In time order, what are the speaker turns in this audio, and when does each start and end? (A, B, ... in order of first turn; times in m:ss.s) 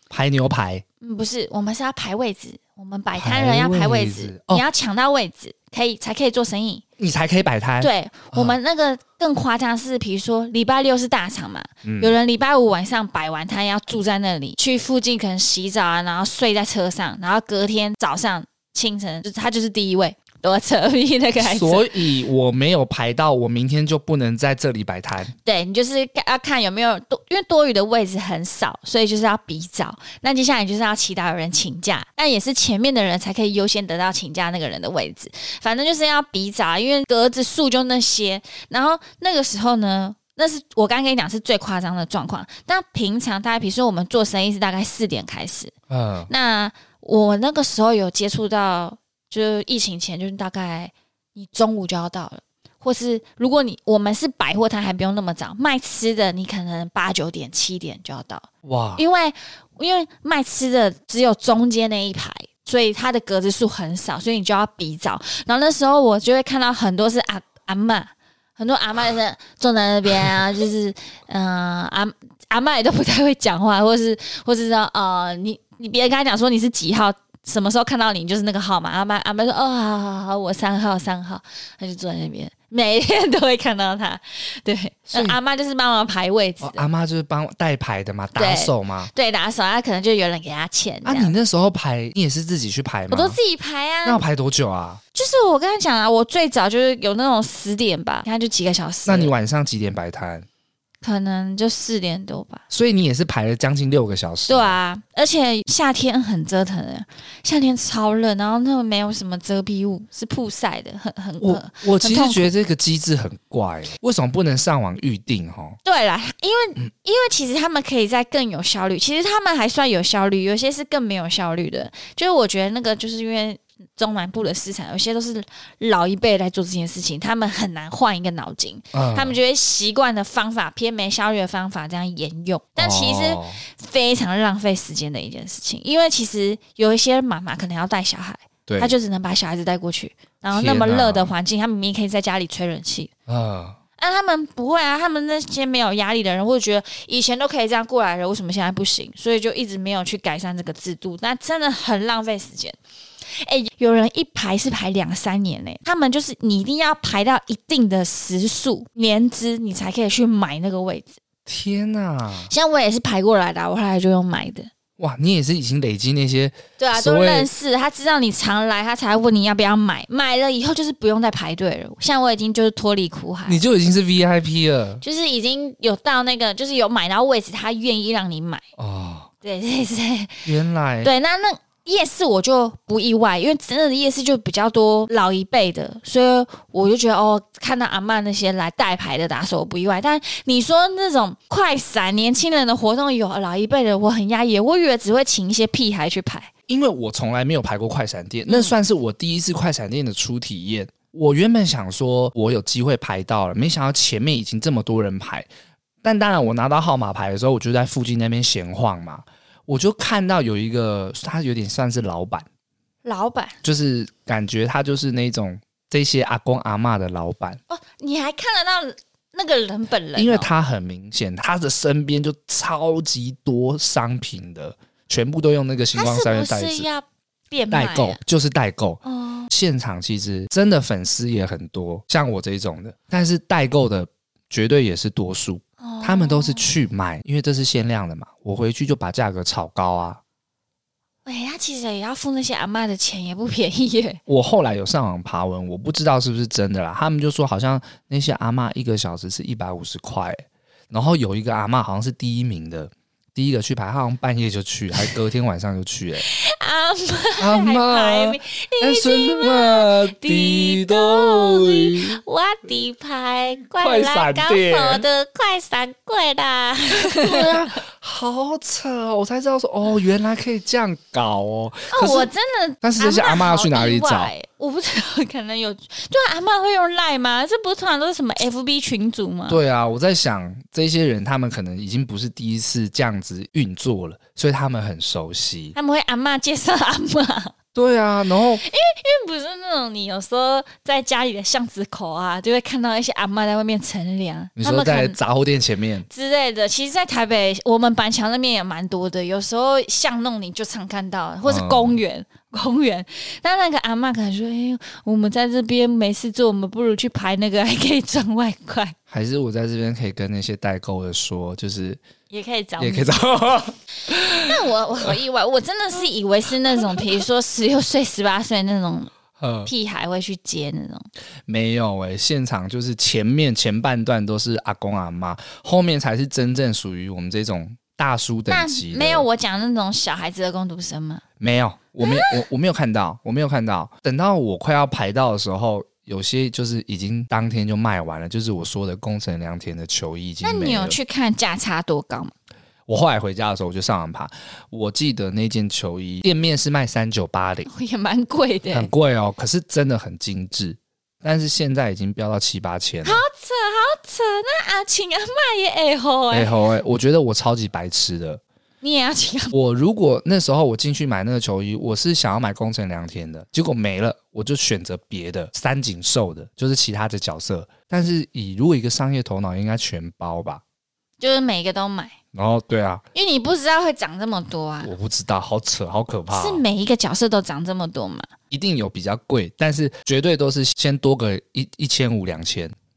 0:00.1-0:00.8 A
0:01.0-0:06.8 B
0:03.2-0:04.6 A
0:07.0-0:08.6 A
0:07.8-0:21.9 B
0:11.8-0:12.2 A
0:21.4-0:25.3 A
0:25.4-0:45.7 B
0:45.9-0:46.3 A
0:46.3-1:26.8 B
0:58.6-0:59.0 A
1:25.1-1:25.4 A
1:26.6-1:29.1 A
1:28.4-1:31.3 B
1:31.0-1:33.4 A
1:33.1-1:34.2 B
1:34.0-1:35.0 A
1:35.1-1:39.3 B
1:39.0-1:40.4 A
1:41.0-1:42.6 B
1:42.7-1:44.8 A
1:44.5-1:52.5 B
1:51.4-1:55.8 A
1:55.8-2:23.1 B
2:08.9-2:09.4 A
2:12.8-2:13.6 A
2:18.6-2:18.9 A
2:20.5-2:21.3 A
2:23.3-2:23.8 A
2:24.0-2:41.2 B
2:41.4-2:42.5 A
2:42.5-2:44.7 B
2:45.0-2:47.5 A
2:46.8-2:53.6 B
2:53.4-2:55.0 A
2:55.0-2:58.6 B
2:58.8-2:59.3 A
2:59.4-3:00.5 B
3:00.4-3:01.1 A
3:01.0-3:16.5 B
3:16.7-3:25.5 A
3:18.5-3:18.7 B
3:26.0-3:32.4 A
3:33.0-3:33.6 B
3:33.6-3:37.6 A
3:37.7-3:40.5 B
3:40.2-3:46.9 A
3:45.9-3:48.2 B
3:47.7-4:00.2 A
3:49.0-3:49.5 B
3:55.8-3:56.7 B
4:01.2-4:04.2 B
4:04.3-4:16.2 A
4:16.2-4:27.6 B
4:17.4-4:22.2 A
4:23.8-4:25.0 A
4:27.0-4:32.3 A
4:31.9-4:39.6 B
4:32.8-4:34.3 A
4:39.5-4:45.7 A
4:45.7-4:47.5 B
4:47.7-4:48.6 A
4:48.6-4:55.2 B
4:54.6-4:56.1 A
4:56.1-5:08.9 B
5:01.4-5:02.0 A
5:09.1-5:12.0 A
5:12.3-5:13.1 B
5:12.8-5:15.1 A
5:14.4-5:19.1 B
5:19.4-5:19.7 A
5:19.6-5:21.1 B
5:21.5-5:29.2 A
5:28.5-5:31.2 B
5:31.4-5:41.0 A
5:40.4-5:42.3 B
5:42.9-5:47.7 A
5:47.7-5:48.9 B
5:48.7-5:53.2 A
5:53.0-5:56.5 B
5:56.3-5:58.4 A
5:58.8-5:59.5 B
5:59.5-6:10.6 A
6:11.2-6:12.1 B
6:12.3-6:13.0 A
6:13.1-6:14.9 B
6:14.8-6:16.6 A
6:16.3-6:18.3 B
6:18.5-6:22.7 A